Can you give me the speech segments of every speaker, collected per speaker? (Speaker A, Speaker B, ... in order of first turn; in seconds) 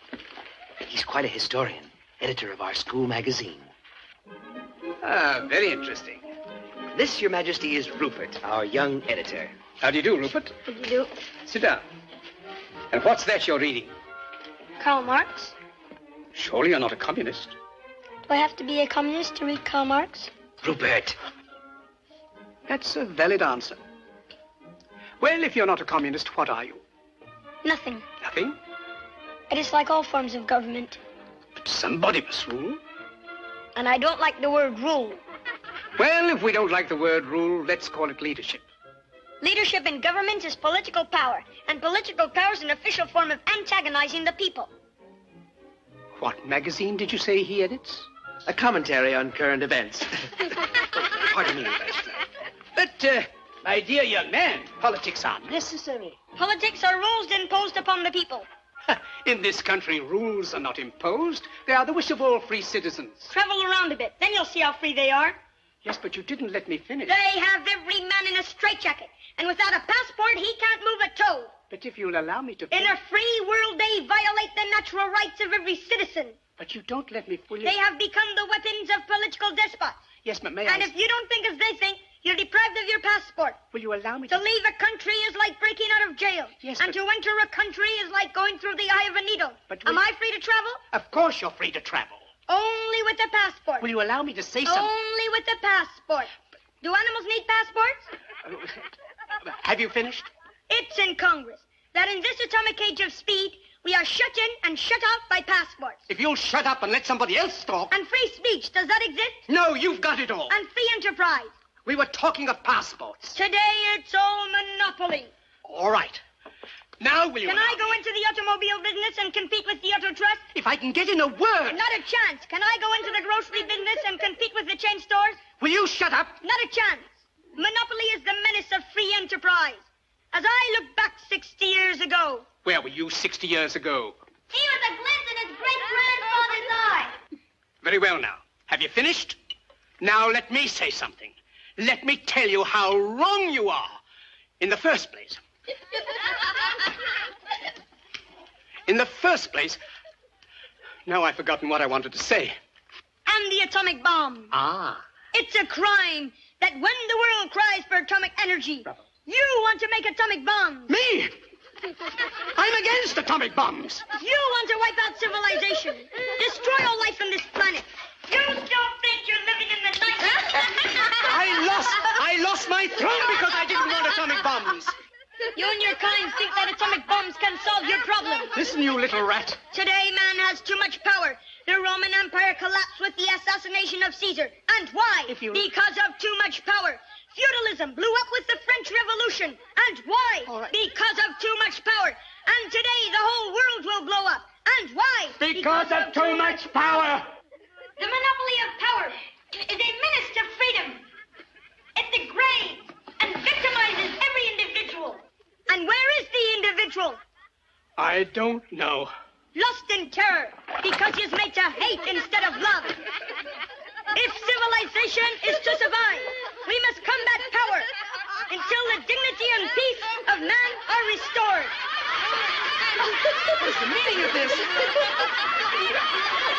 Speaker A: 0.8-3.7, 6.9-9.5, 20.6-21.2, 48.5-50.1
Speaker B: 5.0-6.2, 9.8-10.5, 11.4-11.8, 12.9-13.9, 16.3-17.6, 22.7-23.8, 25.2-26.8, 28.2-28.6, 31.6-32.8, 36.0-38.6, 46.1-48.1, 51.0-52.2, 52.7-56.1, 58.9-63.3, 65.8-67.1, 71.7-73.0, 76.6-77.8, 80.2-80.9, 83.7-84.5, 86.6-87.0, 89.7-90.0, 90.9-92.2, 93.8-94.9, 98.5-98.9, 99.4-100.3, 106.1-107.9, 109.5-110.5, 111.8-113.3, 115.6-116.2, 117.0-118.0, 120.5-121.8, 125.6-126.4, 132.6-134.2, 137.8-139.4, 140.0-144.0, 144.6-145.4, 148.9-149.8, 151.1-152.6, 154.5-155.0, 160.9-161.4, 162.6-164.0, 171.2-174.9, 178.5-179.6, 185.3-185.7, 190.4-190.7, 195.4-197.3, 208.0-209.1, 223.6-224.7
Speaker C: 10.7-11.1, 14.8-15.5, 18.2-20.3, 27.6-28.0, 29.5-31.0, 33.7-35.2, 39.4-44.7, 56.4-58.5, 63.3-65.4, 67.0-71.5, 72.7-76.4, 77.6-80.0, 80.7-83.6, 84.3-90.8, 92.5-93.9, 94.6-98.1, 100.7-106.0, 107.9-109.4, 110.5-111.5, 113.3-115.3, 117.4-120.4, 121.7-125.4, 126.4-132.4, 134.5-137.2, 153.2-154.5, 155.3-160.9, 164.1-171.3, 175.5-178.5, 179.7-196.7, 198.0-201.0, 201.9-207.2, 209.5-213.0, 214.1-217.9, 218.5-221.7